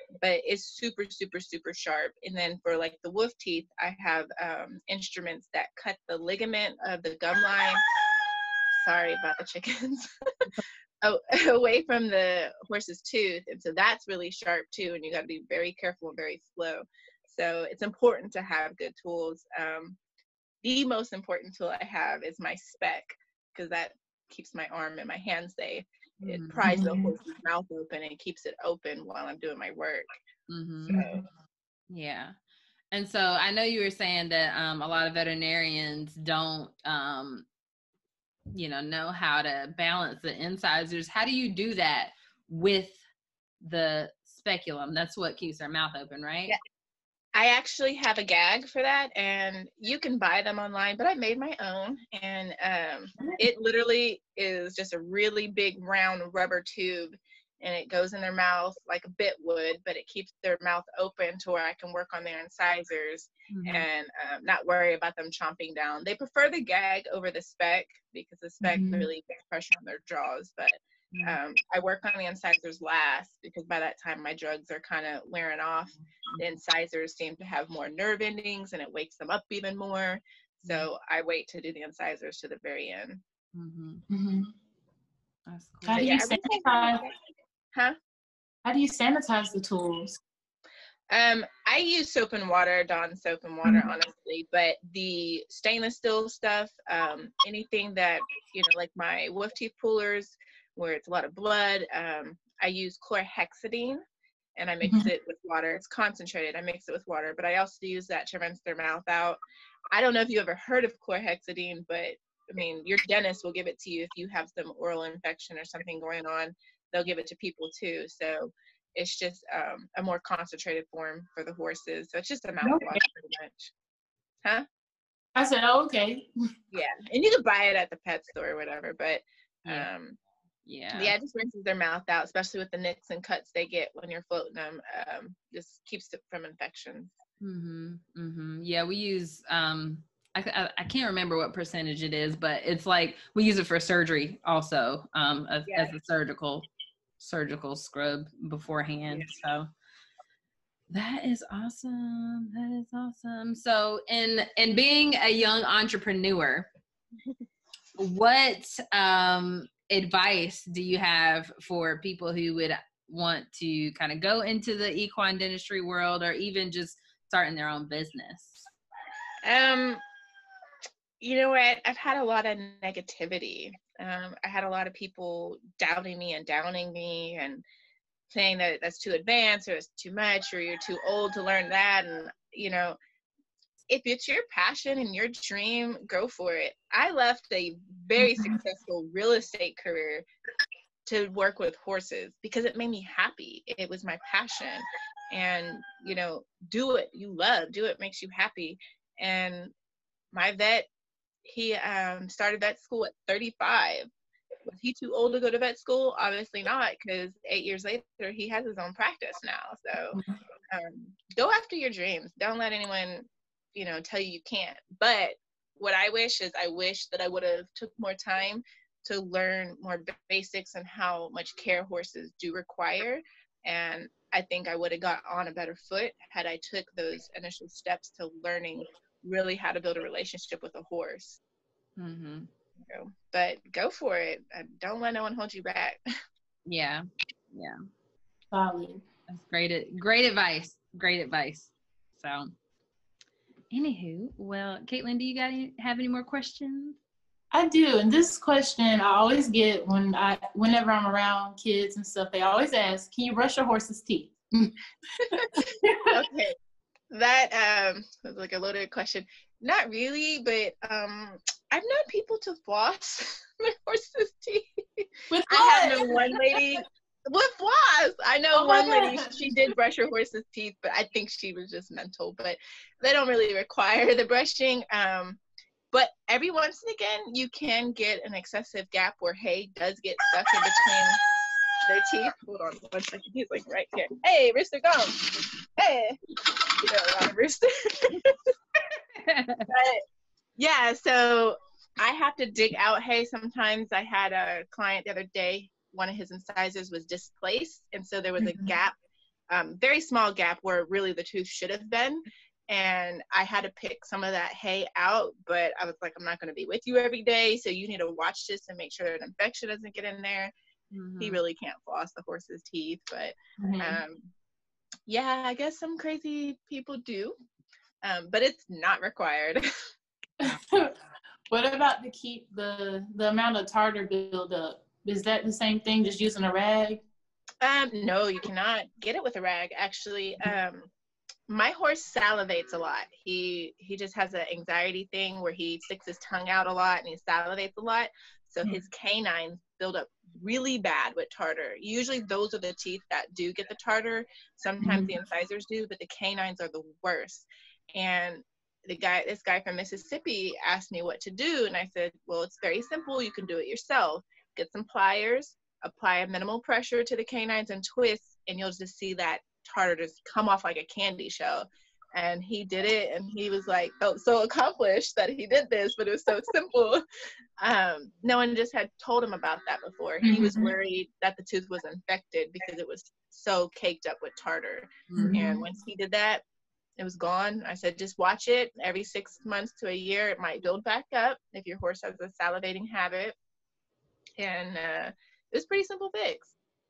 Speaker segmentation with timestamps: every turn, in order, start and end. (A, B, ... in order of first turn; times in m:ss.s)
0:00.2-0:07.8 A
0:08.7-0:10.1 A
0:11.0-0:20.0 A
0:20.6-0:30.1 A
0:26.2-0:26.6 B
0:26.6-0:27.1 C
0:30.5-0:30.9 B
0:30.9-0:31.2 C
0:30.9-0:31.2 A
0:31.9-0:32.3 B
0:32.9-0:37.5 B
0:38.5-0:43.0 B
0:43.6-0:46.6 B
0:47.3-1:23.2 A
1:03.5-1:03.8 B
1:08.6-1:09.1 C
1:11.1-1:11.4 B
1:20.6-1:20.9 B
1:23.5-1:24.0 B
1:24.1-1:24.5 C
1:25.5-1:26.1 B
1:25.9-1:27.0 C
1:25.9-1:27.2 A
1:28.6-1:30.2 C
1:31.1-1:44.0 A
1:33.6-1:33.9 C
1:44.6-1:49.4 A
1:44.8-1:45.1 C
1:49.9-2:03.7 A
2:02.6-2:03.0 C
2:05.4-2:06.3 C
2:06.7-2:10.2 A
2:10.6-2:11.1 B
2:10.9-2:17.1 A
2:17.4-2:26.7 B
2:25.7-2:25.9 A
2:27.2-2:29.7 B
2:30.9-2:36.7 B
2:38.0-2:48.6 B
2:49.4-2:50.0 A
2:51.2-2:57.6 A
2:58.3-3:03.0 A
3:03.9-3:10.2 A
3:08.2-3:08.5 C
3:11.0-3:19.7 A
3:20.3-3:20.9 A
3:21.4-3:24.1 A
3:24.6-3:30.2 A
3:30.7-3:51.4 A
3:52.0-3:52.5 B
3:52.9-3:56.0 A
3:56.6-3:57.8 B
3:58.5-3:59.0 C
3:59.3-4:02.5 B
4:03.7-4:07.0 B
4:07.5-4:16.1 C
4:16.1-4:16.5 A
4:17.1-4:35.4 A
4:25.3-4:26.6 C
4:28.5-4:29.4 C
4:35.9-4:41.2 A
4:41.8-4:48.4 A
4:49.2-4:49.7 B
4:49.7-4:50.0 A
4:50.6-4:58.9 A
4:58.4-4:58.7 C
4:59.5-5:10.5 A
5:10.9-5:11.4 B
5:11.2-5:14.3 A
5:13.6-5:14.0 C
5:15.1-5:17.4 A
5:18.0-5:19.6 A
5:20.4-5:20.9 C
5:21.5-5:27.0 C
5:27.6-5:30.9 A
5:31.5-6:07.0 A
5:44.8-5:45.1 C
6:07.6-6:16.4 A
6:10.2-6:10.7 C
6:15.1-6:15.3 B
6:15.2-6:15.6 C
6:17.0-6:23.4 A
6:24.4-6:26.5 A